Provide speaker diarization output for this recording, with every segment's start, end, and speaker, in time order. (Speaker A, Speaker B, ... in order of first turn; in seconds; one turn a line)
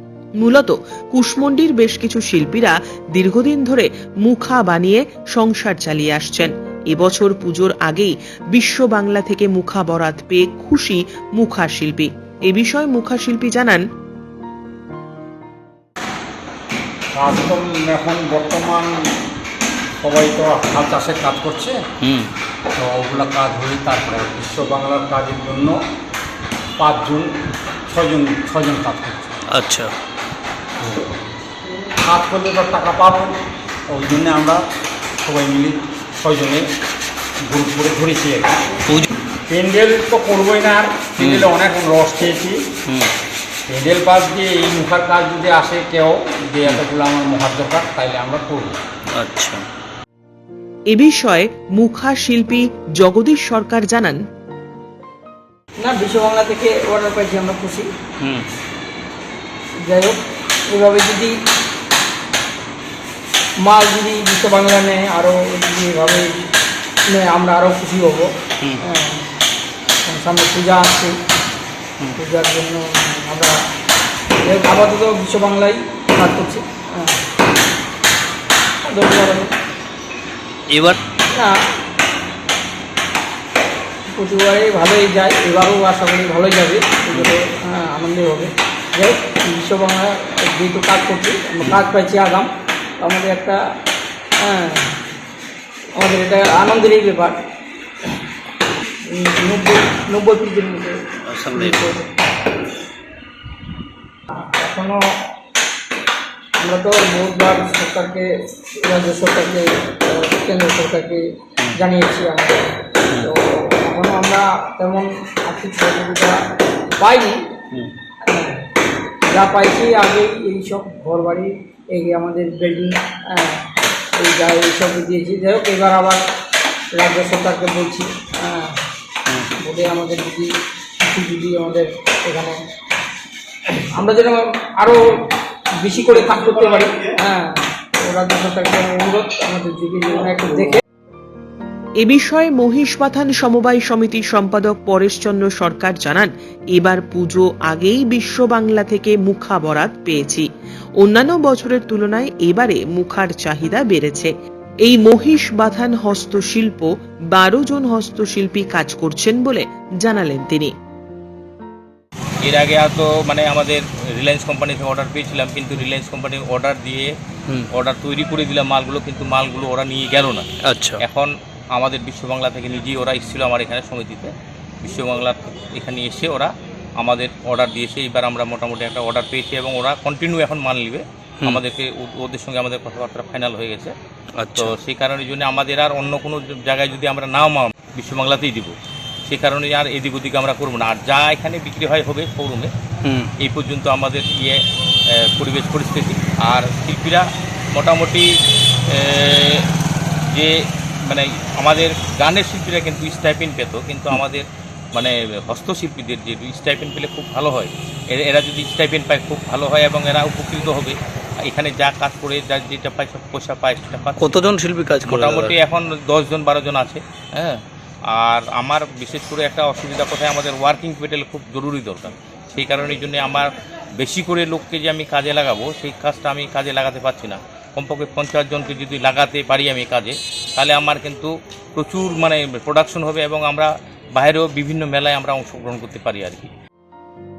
Speaker A: 0.4-13.8
Speaker B: 17.1-18.9
Speaker B: 20.0-21.8
Speaker C: 22.0-22.3
Speaker B: 22.8-25.8
Speaker B: 26.8-27.3
Speaker B: 27.9-29.4
Speaker C: 29.5-29.9
Speaker B: 30.8-31.1
Speaker B: 32.0-33.3
Speaker B: 33.9-34.6
Speaker B: 35.2-36.6
Speaker B: 37.5-38.6
Speaker B: 39.5-42.6
Speaker C: 41.2-41.5
Speaker B: 43.7-48.7
Speaker C: 49.1-49.6
Speaker A: 50.9-54.2
Speaker D: 55.8-57.9
Speaker C: 58.2-58.5
Speaker D: 59.8-61.3
Speaker D: 63.6-66.4
Speaker D: 67.1-68.3
Speaker D: 68.8-69.2
Speaker D: 70.0-71.2
Speaker D: 72.2-73.5
Speaker D: 74.4-77.2
Speaker D: 78.8-79.5
Speaker C: 80.7-81.0
Speaker D: 84.1-92.5
Speaker D: 93.0-93.6
Speaker D: 94.4-94.9
Speaker D: 96.0-97.4
Speaker D: 99.1-101.0
Speaker C: 101.2-101.9
Speaker D: 101.5-102.1
Speaker D: 104.3-105.0
Speaker D: 106.6-112.7
Speaker D: 113.2-116.4
Speaker D: 117.0-117.5
Speaker D: 118.3-118.6
Speaker D: 119.3-126.2
Speaker D: 126.9-128.8
Speaker D: 129.6-132.6
Speaker D: 133.9-135.0
Speaker D: 135.8-140.8
Speaker A: 142.0-150.5
Speaker A: 151.0-154.3
Speaker A: 154.8-160.7
Speaker E: 162.4-167.1
Speaker E: 167.7-170.4
Speaker C: 170.6-171.0
Speaker E: 171.0-183.9
Speaker C: 184.4-184.7
Speaker E: 184.6-188.7
Speaker E: 189.3-192.7
Speaker C: 193.0-193.3
Speaker E: 193.4-194.6
Speaker E: 195.2-198.3
Speaker E: 198.9-199.7
Speaker E: 201.1-210.9
Speaker E: 211.5-214.5
Speaker C: 214.2-215.6
Speaker E: 215.0-217.6
Speaker E: 218.1-236.5